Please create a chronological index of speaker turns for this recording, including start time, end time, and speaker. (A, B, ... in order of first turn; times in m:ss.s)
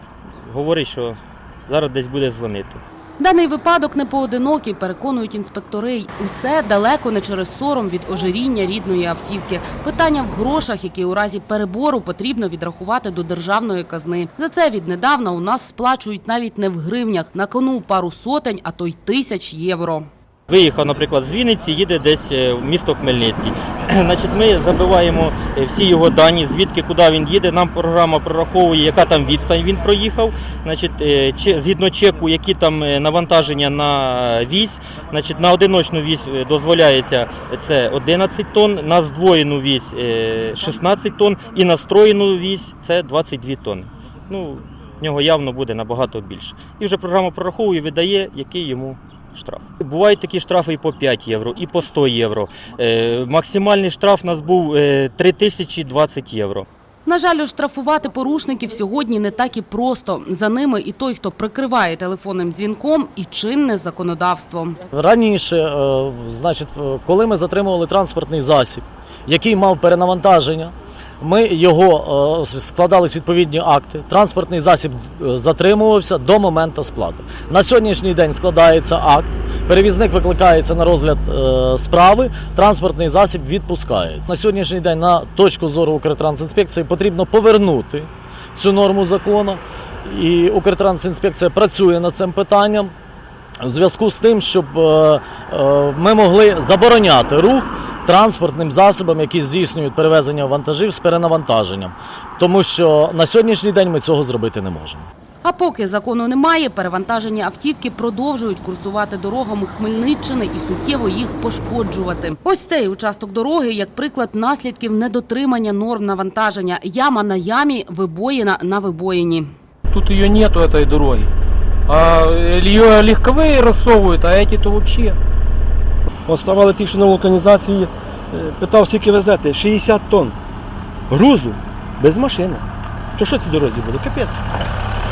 0:00.4-0:02.8 A
0:03.2-0:20.1 B
0:20.5-0:56.7 A
0:57.1-1:04.8 B
1:04.9-1:32.9 C
1:33.6-1:45.1 C
1:45.4-1:59.5 B
1:59.9-2:01.3 D
2:01.9-2:05.2 D
2:06.3-2:10.4 E
2:11.1-2:14.5 E